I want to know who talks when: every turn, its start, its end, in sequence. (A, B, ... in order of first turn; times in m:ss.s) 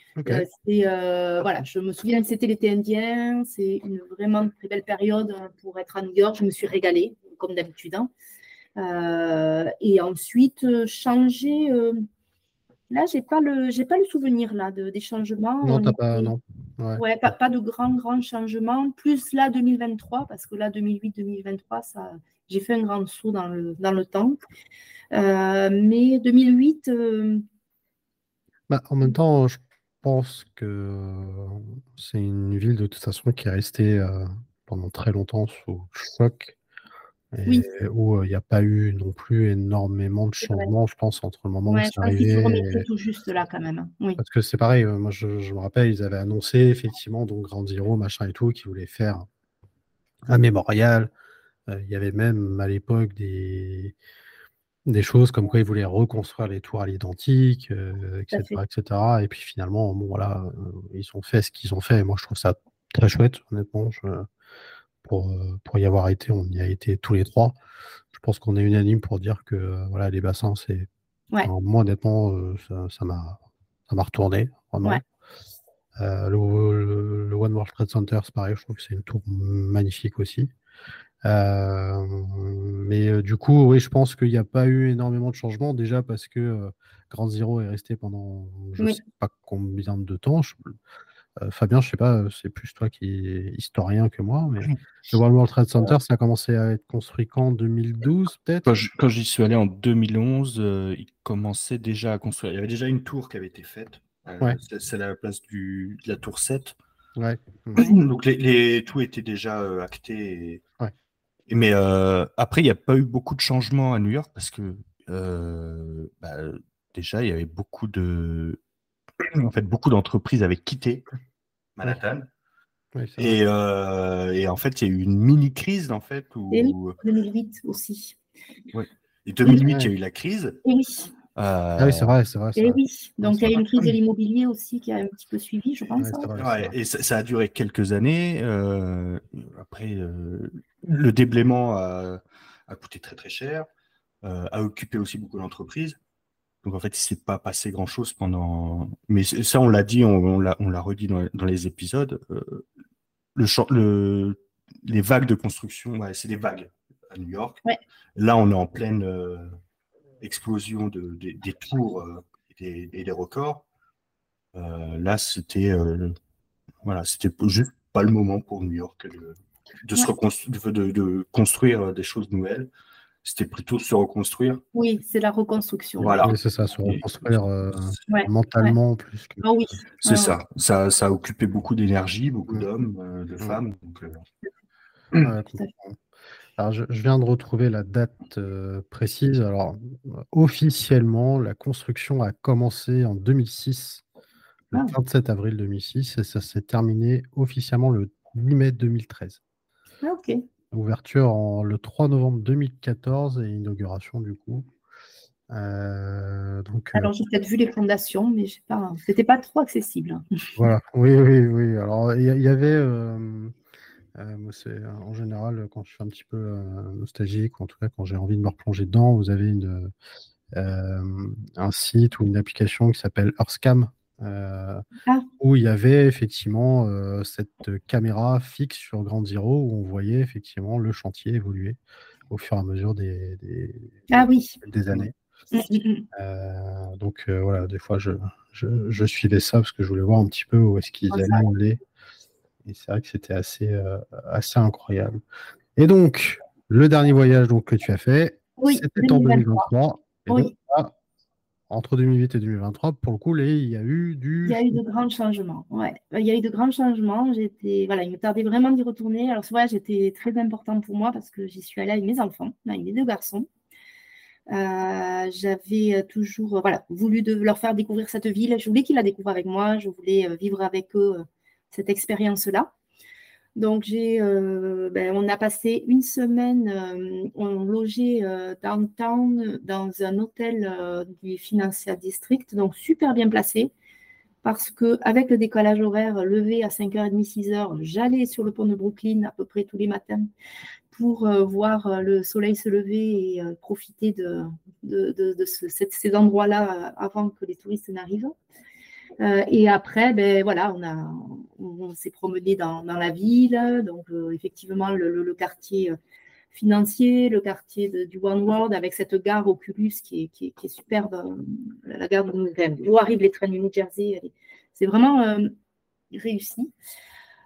0:00.2-0:00.4 A
0:00.2-0:08.1 B
0:08.8-0:12.0 B
0:12.9-0:16.3 B
0:15.6-0:17.0 A
0:17.0-0:24.4 B
0:25.1-0:27.4 B
0:28.7-0:36.5 A
0:37.3-0:42.8 A
0:40.4-0:40.7 B
0:41.7-0:44.2 B
0:44.2-0:49.3 A
0:50.3-0:51.1 A
0:51.7-0:53.9 A
0:54.9-1:04.3 A
0:58.3-0:58.6 B
1:05.0-1:07.6 A
1:08.1-1:10.9 A
1:11.4-1:15.0 A
1:16.0-1:20.5 A
1:21.2-1:30.7 A
1:31.4-1:38.7 A
1:38.6-1:46.8 C
1:47.2-1:47.8 A
1:47.8-1:50.6 C
1:51.5-1:58.6 C
1:59.2-2:01.0 C
2:01.8-2:02.3 C
2:02.9-2:03.4 A
2:03.2-2:07.0 C
2:06.5-2:08.2 B
2:08.7-2:10.6 C
2:09.6-2:09.9 A
2:10.6-2:11.1 B
2:11.4-2:12.1 C
2:11.8-2:13.6 A
2:12.6-2:16.3 B
2:16.0-2:16.7 A
2:16.4-2:23.7 C
2:24.2-2:26.0 C
2:26.6-2:32.6 C
2:33.3-2:37.6 C
2:38.2-2:39.6 C
2:40.2-2:43.6 C
2:44.5-2:46.2 C
2:46.8-2:52.7 C
2:53.2-2:54.6 C
2:54.7-2:56.2 B
2:56.0-2:57.3 C
2:56.2-2:59.4 A
2:58.1-2:58.7 B
2:59.4-3:00.4 B
3:00.0-3:04.2 C
3:05.1-3:06.0 A
3:06.6-3:14.0 A
3:14.7-3:19.4 A
3:20.0-3:20.4 B
3:20.7-3:24.7 A
3:25.5-3:27.1 A
3:26.9-3:30.2 B
3:30.6-3:33.5 A
3:34.2-3:39.9 A
3:40.5-3:44.8 A
3:45.4-3:51.8 A
3:52.3-3:55.1 A
3:54.1-3:54.6 B
3:55.5-3:56.0 B
3:56.1-4:01.8 A
4:01.1-4:01.4 B
4:02.6-4:05.2 A
4:05.8-4:10.9 A
4:08.6-4:09.7 B
4:10.3-4:10.5 B
4:11.7-4:14.8 A
4:14.4-4:23.5 B
4:24.5-4:32.7 B
4:33.6-4:43.7 B
4:44.4-4:50.3 B
4:50.9-4:58.3 B
4:59.2-5:06.0 B
5:06.5-5:15.5 B
5:16.1-5:16.7 B